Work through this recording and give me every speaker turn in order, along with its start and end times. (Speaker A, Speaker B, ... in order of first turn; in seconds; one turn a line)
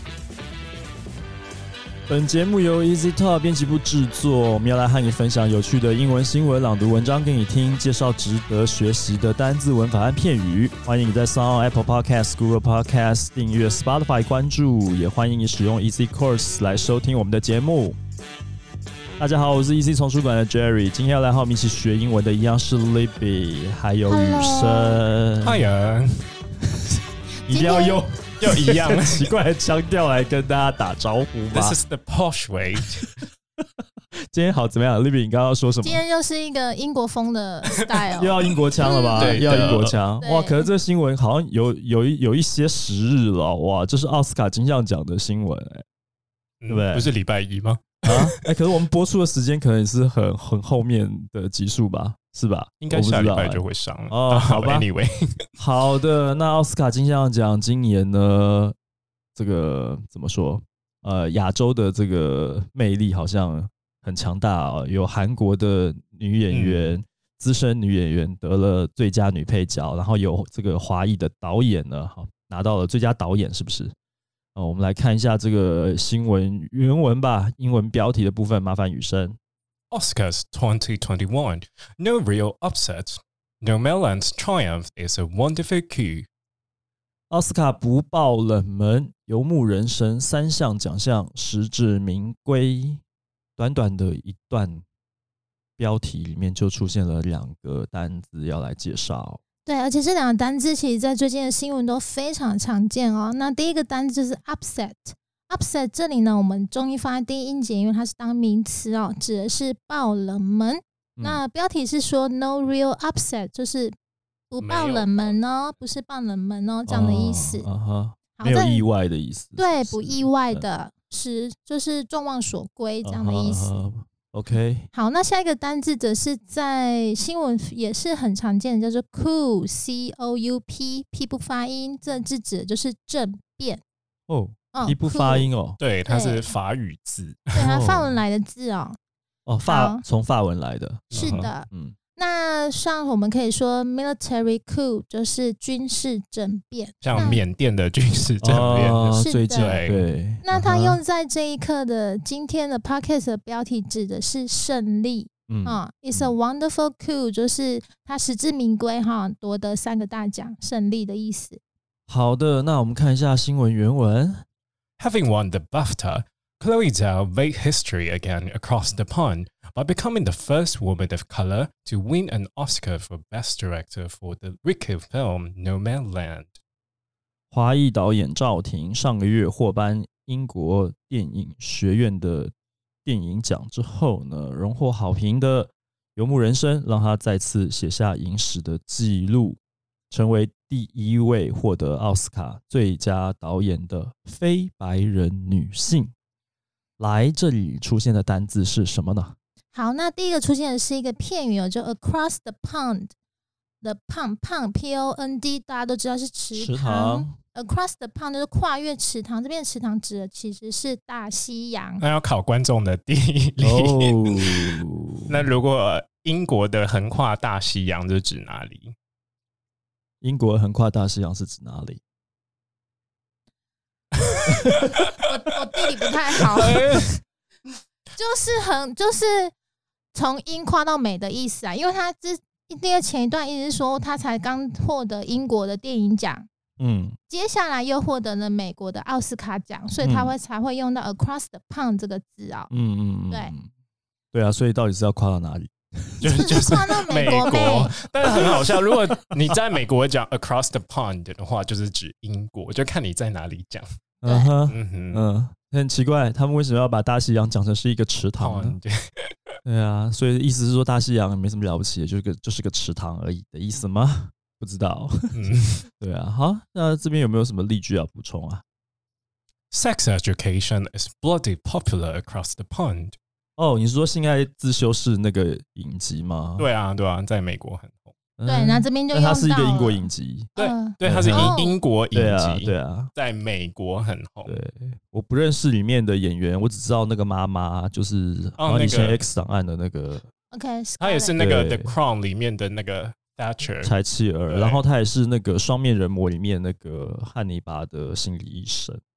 Speaker A: 2.1-18.0
Speaker A: 19.2-25.7
Speaker B: 24.1-25.0
Speaker C: 25.4-26.2
Speaker A: 26.6-31.8
Speaker B: 27.5-28.0
Speaker C: 28.4-29.3
Speaker C: 31.5-33.1
Speaker A: 32.8-33.6
Speaker A: 34.3-36.0
Speaker B: 35.8-40.7
Speaker A: 38.1-45.8
Speaker C: 39.2-40.0
Speaker C: 46.6-48.5
Speaker A: 46.7-47.1
Speaker A: 48.0-54.9
Speaker C: 52.8-55.4
Speaker A: 55.6-58.7
Speaker A: 59.4-73.9
Speaker C: 66.5-66.9
Speaker A: 74.5-79.4
Speaker C: 79.9-86.3
Speaker A: 87.3-93.0
Speaker A: 93.6-94.8
Speaker A: 95.8-99.4
Speaker B: 99.7-113.9
Speaker B: 114.5-117.7
Speaker C: 114.6-115.4
Speaker A: 116.9-120.6
Speaker B: 118.4-118.8
Speaker B: 119.6-123.7
Speaker A: 123.0-124.9
Speaker B: 124.9-133.8
Speaker A: 134.3-135.8
Speaker B: 134.7-135.5
Speaker C: 135.8-137.5
Speaker B: 136.1-136.5
Speaker B: 137.5-139.0
Speaker A: 137.6-138.2
Speaker A: 139.4-141.9
Speaker B: 139.6-140.0
Speaker C: 141.1-141.5
Speaker B: 141.1-147.4
Speaker C: 147.0-150.1
Speaker A: 148.4-151.0
Speaker B: 149.2-149.8
Speaker B: 150.4-161.6
Speaker A: 155.5-156.3
Speaker A: 162.1-164.4
Speaker C: 165.0-176.6
Speaker A: 177.5-182.5
Speaker A: 183.0-189.6
Speaker A: 190.1-196.1
Speaker A: 197.0-199.3
Speaker B: 199.7-203.1
Speaker B: 203.8-212.0
Speaker A: 206.5-207.3
Speaker C: 212.0-214.8
Speaker A: 213.6-215.4
Speaker C: 215.3-218.9
Speaker A: 220.2-222.0
Speaker C: 224.2-225.2
Speaker A: 224.5-224.9
Speaker B: 225.2-227.0
Speaker C: 226.4-227.2
Speaker B: 228.2-229.5
Speaker B: 230.1-236.5
Speaker A: 236.8-237.2
Speaker B: 237.3-242.7
Speaker A: 240.0-240.3
Speaker A: 242.7-243.7
Speaker A: 244.3-246.7
Speaker C: 246.2-253.8
Speaker B: 246.2-248.5
Speaker A: 248.2-249.0
Speaker A: 254.2-258.8
Speaker B: 254.2-254.5
Speaker C: 254.7-255.2
Speaker C: 258.4-259.3
Speaker A: 259.6-268.6
Speaker C: 265.3-265.8
Speaker C: 269.7-273.2
Speaker A: 273.6-276.7
Speaker C: 276.6-278.1
Speaker A: 278.4-281.6
Speaker B: 278.4-281.7
Speaker C: 280.6-284.6
Speaker A: 282.1-283.1
Speaker A: 284.4-290.2
Speaker C: 288.6-289.2
Speaker B: 290.5-291.3
Speaker C: 291.0-293.9
Speaker A: 291.4-291.9
Speaker A: 293.8-299.0
Speaker C: 294.5-294.8